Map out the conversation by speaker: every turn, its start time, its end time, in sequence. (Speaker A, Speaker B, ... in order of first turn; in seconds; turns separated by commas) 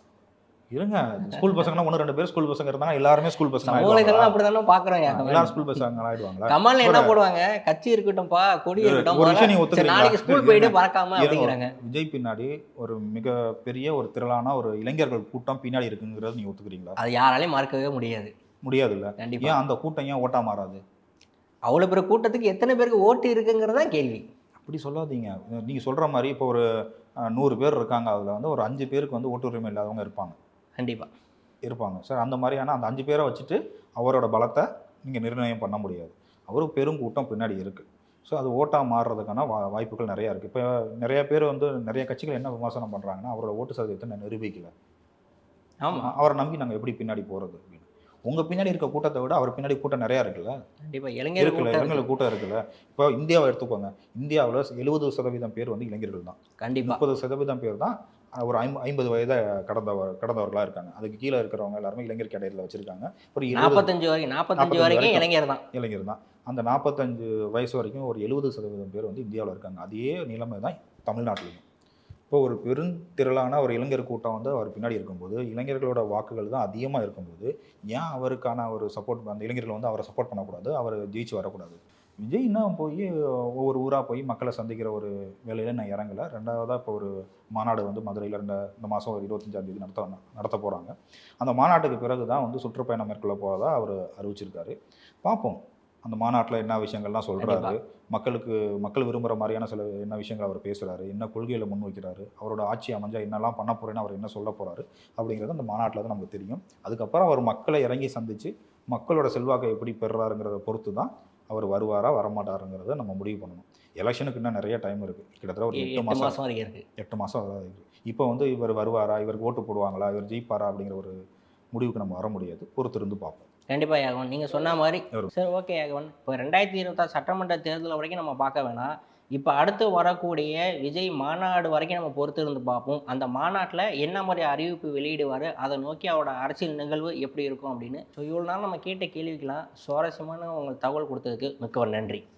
Speaker A: 0.7-4.4, Speaker B: 3.6-5.9, Speaker A: 5.1-7.2, Speaker B: 6.5-11.7, Speaker A: 8.8-17.0, Speaker B: 17.0-18.3, Speaker A: 18.6-20.8, Speaker B: 19.2-19.6, Speaker B: 21.7-24.3, Speaker A: 24.6-26.6, Speaker A: 27.3-30.4, Speaker B: 30.8-31.1, Speaker A: 31.7-44.7, Speaker B: 45.8-46.1, Speaker A: 45.9-50.5, Speaker B: 50.8-52.0, Speaker A: 51.4-63.9, Speaker B: 56.6-57.0, Speaker B: 63.5-65.6, Speaker A: 64.6-71.6, Speaker A: 72.3-116.4, Speaker B: 97.4-97.8, Speaker B: 115.7-116.8, Speaker A: 117.0-121.2, Speaker A: 121.7-123.5, Speaker B: 123.7-142.2